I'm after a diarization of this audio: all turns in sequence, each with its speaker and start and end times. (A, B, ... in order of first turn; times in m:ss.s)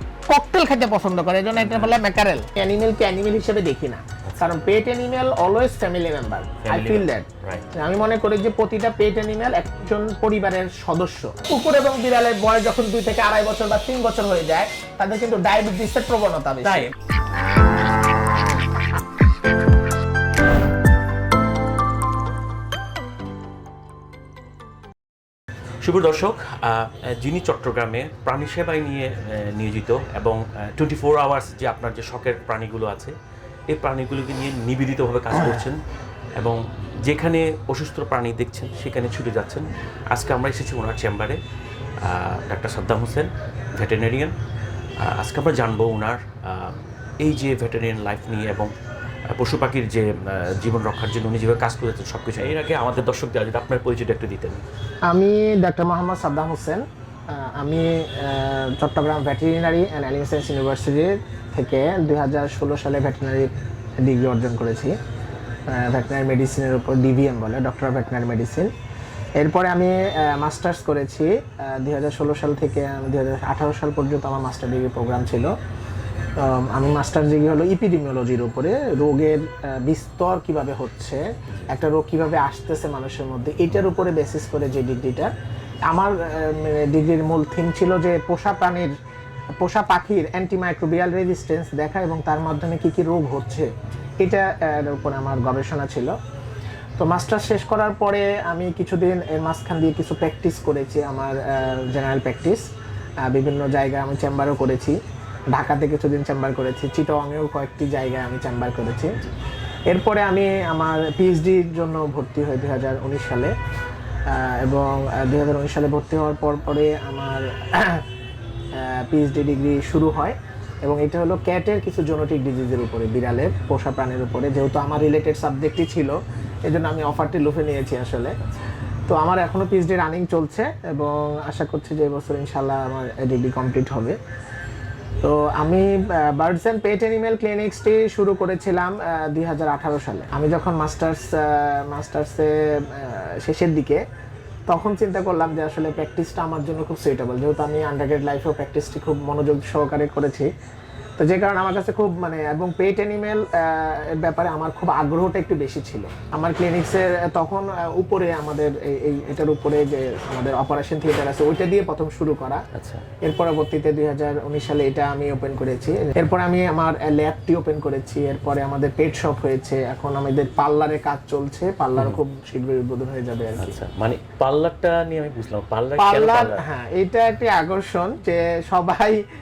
0:00.3-0:16.9 A
0:01.6-0:02.0 B
0:04.3-0:04.6 B
0:06.6-0:07.7 B
0:25.8-0:33.1 B
0:33.7-0:35.8 B
0:36.4-0:41.4 B
0:42.0-0:44.3 B
0:45.0-0:48.7 B
0:49.3-0:54.6 B
0:55.1-1:03.5 A
1:04.0-1:04.9 A
1:05.7-1:08.7 A
1:09.4-1:15.5 A
1:16.4-1:25.3 A
1:25.9-1:28.9 A
1:29.6-1:33.7 A
1:34.2-1:36.1 A
1:37.0-1:42.6 A
1:43.2-1:45.0 A
1:45.5-1:49.2 A
1:49.9-1:53.5 A
1:54.3-1:58.0 A
1:58.8-2:08.3 A
2:09.1-2:14.2 A
2:15.2-2:24.0 A
2:24.7-2:30.5 A
2:31.2-2:42.6 A
2:42.7-2:43.0 B
2:43.2-2:53.8 A
2:53.6-2:56.6 B
2:56.0-2:59.2 A